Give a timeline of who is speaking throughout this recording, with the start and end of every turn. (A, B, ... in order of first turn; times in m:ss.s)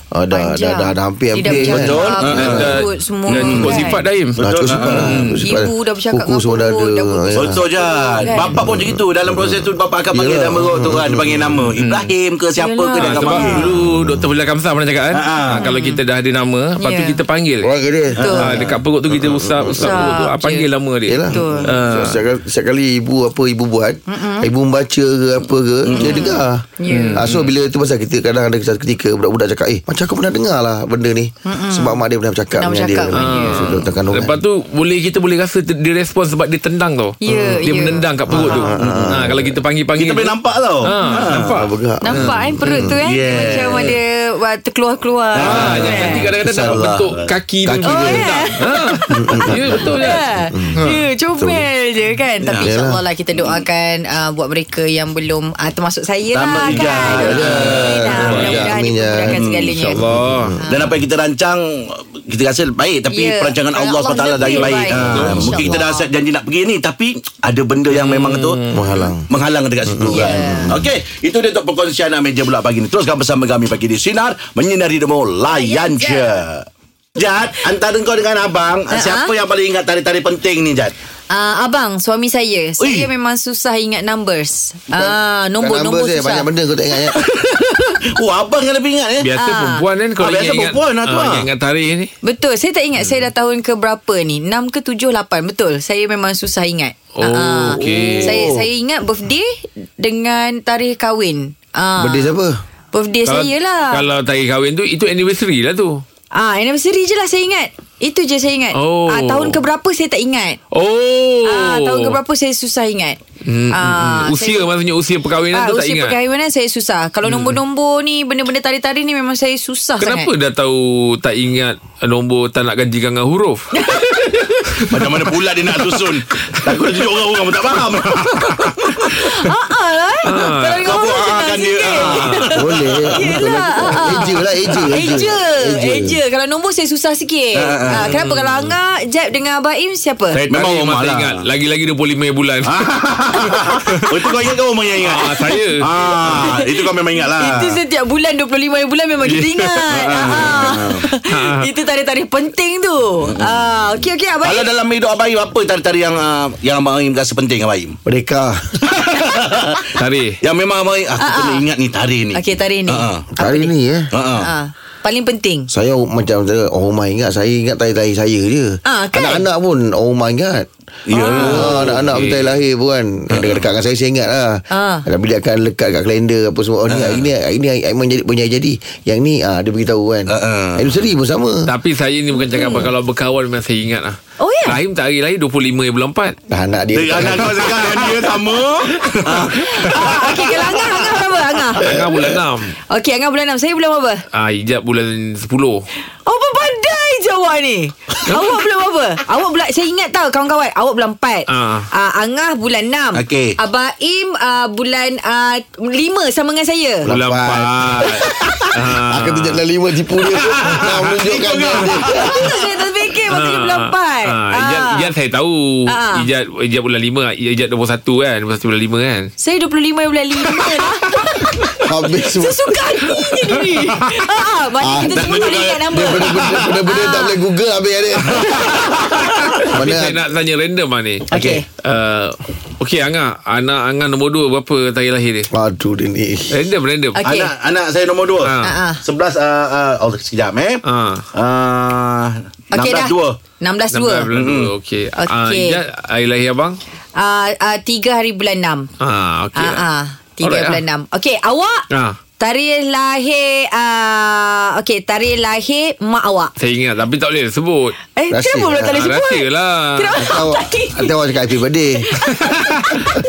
0:00.1-0:02.7 A
0:00.3-0:04.0 B
0:01.4-0:05.3 C
0:02.3-0:05.4 D
0:03.4-0:03.7 A
0:04.4-0:07.6 A
0:05.4-0:08.6 B
0:07.4-0:13.8 C
0:08.4-0:11.6 A
0:11.8-0:12.1 D
0:12.6-0:13.6 B
0:13.0-0:17.7 D
0:13.9-0:14.3 A
0:15.1-0:15.7 C
0:15.6-0:16.0 B
0:16.8-0:17.2 B
0:17.6-0:20.1 A
0:18.1-0:18.6 B
0:18.2-0:18.6 C
0:18.3-0:22.2 D
0:19.8-0:20.7 B
0:21.1-0:34.4 A
0:21.3-0:21.7 B
0:24.1-0:24.5 B
0:25.8-0:26.3 C
0:26.0-0:27.2 B
0:26.9-0:27.5 D
0:31.4-0:33.7 B
0:33.1-0:42.9 D
0:37.2-0:38.5 B
0:38.3-0:39.6 A
0:38.5-0:39.3 C
0:39.9-0:41.6 C
0:41.5-0:43.0 A
0:42.0-0:46.3 B
0:43.0-0:44.0 C
0:45.3-0:47.3 C
0:45.4-0:51.0 D
0:45.4-0:46.9 A
0:47.6-0:48.3 A
0:47.8-1:00.0 B
0:49.1-0:51.7 A
0:52.4-0:52.7 C
0:52.6-0:53.0 A
0:53.4-0:53.6 C
0:56.3-0:58.4 C
0:56.7-0:58.7 D
0:57.0-0:59.4 A
0:59.3-0:59.7 C
0:59.7-1:00.6 D
1:00.0-1:00.6 A
1:00.6-1:00.9 B
1:00.6-1:08.6 C
1:03.1-1:06.1 B
1:04.4-1:05.8 D
1:07.9-1:08.9 D
1:08.7-1:09.2 A
1:09.3-1:20.9 C
1:09.8-1:10.8 A
1:10.1-1:10.8 B
1:15.5-1:16.3 B
1:18.9-1:19.3 B
1:21.3-1:26.5 B
1:22.8-1:23.1 C
1:24.9-1:27.2 A
1:27.1-1:29.3 C
1:29.2-1:32.1 D
1:29.4-1:29.8 B
1:30.2-1:31.5 C
1:32.2-1:42.3 B
1:37.2-1:38.4 D
1:37.8-1:38.7 C
1:42.0-1:42.6 A
1:42.9-1:44.0 B
1:43.2-1:46.0 D
1:46.3-1:50.6 B
1:48.7-1:49.6 D
1:50.7-1:52.1 D
1:51.4-1:53.2 B
1:53.4-1:56.2 D
1:53.7-1:54.7 B
1:55.5-2:00.3 B
1:57.2-1:57.6 D
2:00.0-2:03.7 D
2:03.7-2:04.6 B
2:04.9-2:08.8 C
2:04.9-2:05.2 D
2:08.5-2:12.5 B
2:10.2-2:10.9 D
2:10.8-2:13.3 C
2:12.1-2:12.4 D
2:12.5-2:16.2 A
2:13.1-2:20.4 B
2:17.5-2:18.2 C
2:17.9-2:18.8 D
2:20.3-2:22.8 D
2:20.5-2:21.4 C
2:22.6-2:27.8 C
2:23.3-2:24.2 D
2:25.0-2:26.4 D
2:26.3-2:26.8 B
2:27.3-2:34.7 B
2:29.3-2:29.7 D
2:29.9-2:31.1 C
2:31.2-2:31.7 D
2:33.3-2:33.6 C
2:34.4-2:38.0 C
2:38.0-2:39.0 A
2:38.9-2:43.2 C
2:40.0-2:40.4 D
2:41.2-2:41.6 B
2:42.3-2:43.7 B
2:43.4-2:44.0 A
2:44.1-2:44.5 C
2:44.4-2:45.7 B
2:45.7-2:50.7 A
2:48.8-2:49.4 B
2:51.1-2:52.4 C
2:51.1-2:51.7 B
2:51.2-2:52.6 D
2:51.3-3:01.7 A
2:53.3-2:53.7 C
2:54.7-2:55.0 B
2:56.9-2:57.3 C
3:00.3-3:01.0 C
3:01.7-3:06.4 D
3:02.3-3:02.9 B
3:04.4-3:04.8 B
3:06.5-3:07.7 A
3:06.9-3:10.5 C
3:09.5-3:11.9 B
3:11.8-3:12.7 D
3:11.8-3:12.3 A
3:12.9-3:14.2 B
3:14.3-3:15.8 D
3:16.2-3:27.1 B
3:18.2-3:18.5 D
3:21.5-3:21.9 D
3:23.1-3:23.6 C
3:27.0-3:32.5 A
3:27.0-3:29.6 D
3:30.5-3:32.5 C
3:32.0-3:35.1 B
3:33.3-3:39.3 D
3:35.9-3:36.3 B
3:39.4-3:41.1 B
3:41.8-3:42.7 A
3:42.4-3:47.4 B
3:44.8-3:49.0 A
3:45.1-3:46.8 C
3:48.4-3:49.2 C
3:49.7-3:50.2 A
3:49.7-3:51.3 D
3:51.3-3:51.6 C
3:51.3-3:51.6 B
3:51.8-3:55.5 D
3:55.5-3:56.7 A
3:56.5-3:57.2 D
3:57.2-3:57.5 B
3:57.2-4:00.8 C
3:58.4-3:58.8 D
3:58.6-3:59.0 B
4:00.8-4:01.2 D
4:01.3-4:03.4 C
4:02.7-4:04.3 B
4:03.9-4:06.8 D
4:04.3-4:04.7 C
4:05.2-4:05.8 B
4:07.2-4:08.9 B
4:09.0-4:09.8 D
4:09.5-4:11.8 B
4:10.4-4:10.8 D
4:11.9-4:12.2 D
4:12.4-4:16.5 B
4:16.6-4:18.0 D
4:18.2-4:21.1 B
4:18.3-4:19.1 A
4:18.9-4:20.2 D
4:20.2-4:22.1 A
4:21.9-4:23.0 B
4:22.5-4:23.0 D